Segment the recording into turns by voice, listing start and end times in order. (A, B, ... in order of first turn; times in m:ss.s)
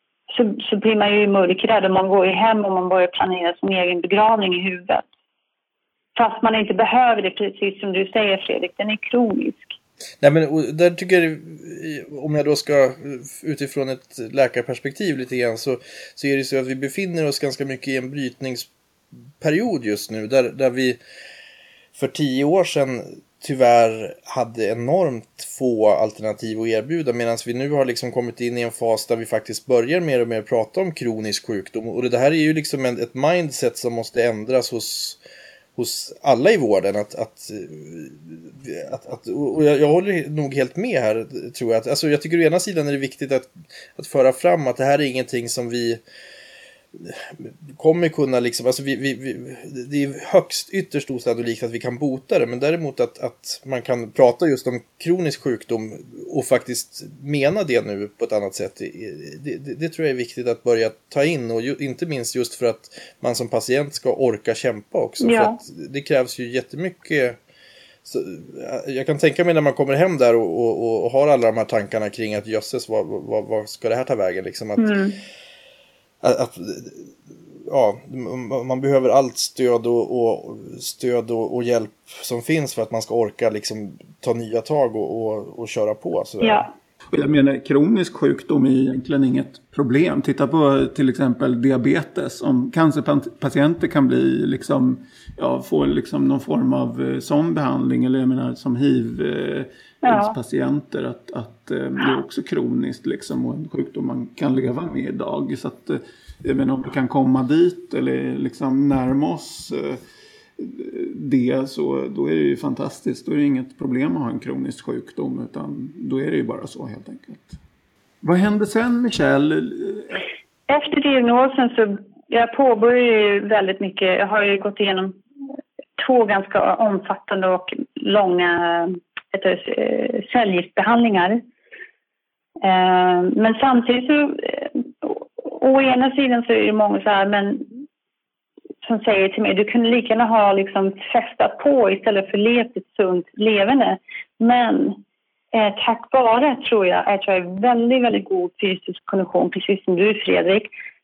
0:00.3-0:05.1 A
0:06.2-0:09.8 A
0:10.2-0:18.7 B
0:19.4-0:21.0 B
0:22.0-0:35.2 B
0:35.8-0:46.0 B
0:46.9-1:07.4 B
1:05.2-1:05.6 A
1:08.0-1:15.0 B
1:14.8-1:15.2 A
1:16.2-1:17.1 B
1:17.7-1:26.7 B
1:26.4-1:26.7 A
1:27.1-1:50.0 C
1:40.0-1:40.4 A
1:50.6-1:57.6 C
1:58.2-2:00.2 C
2:00.7-2:05.2 A
2:06.0-2:11.4 A
2:12.6-2:17.8 A
2:18.8-2:25.0 A
2:25.5-2:30.7 A